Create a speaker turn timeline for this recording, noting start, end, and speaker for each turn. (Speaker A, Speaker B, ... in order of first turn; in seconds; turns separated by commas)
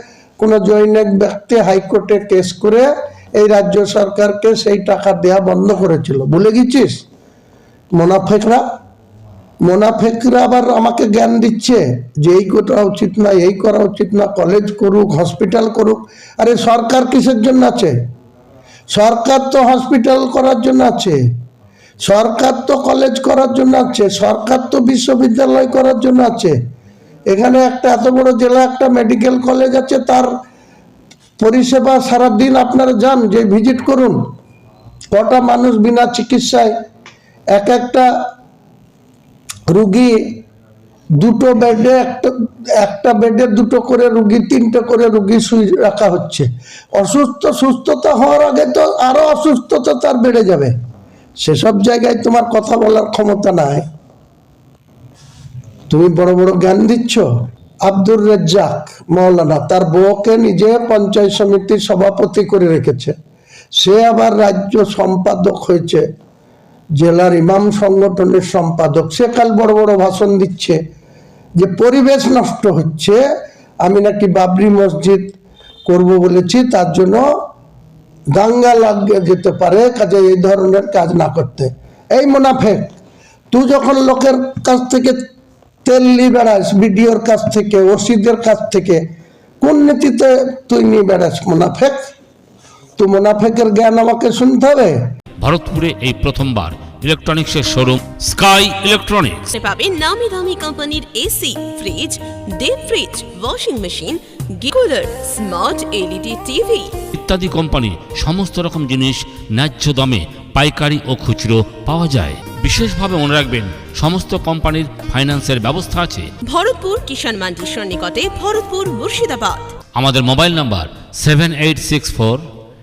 Speaker A: 0.4-7.0, Speaker A: 7.9-8.6, Speaker A: 9.6-18.0, Speaker A: 18.9-21.2, Speaker A: 22.0-26.6, Speaker A: 27.3-30.3, Speaker A: 31.4-34.2, Speaker A: 35.1-36.7, Speaker A: 37.5-38.1, Speaker A: 39.7-40.4, Speaker A: 41.2-50.7, Speaker A: 51.4-53.9, Speaker A: 55.9-57.3, Speaker A: 57.8-63.1, Speaker A: 63.8-66.0, Speaker A: 67.0-70.8, Speaker A: 71.6-73.2, Speaker A: 73.8-77.3, Speaker A: 78.3-83.0, Speaker A: 83.5-85.3, Speaker A: 85.8-89.0, Speaker A: 89.6-92.0, Speaker A: 93.0-95.0, Speaker B: 95.4-99.5, Speaker C: 99.5-106.9, Speaker B: 107.1-116.3, Speaker C: 116.5-119.7, Speaker B: 120.0-122.4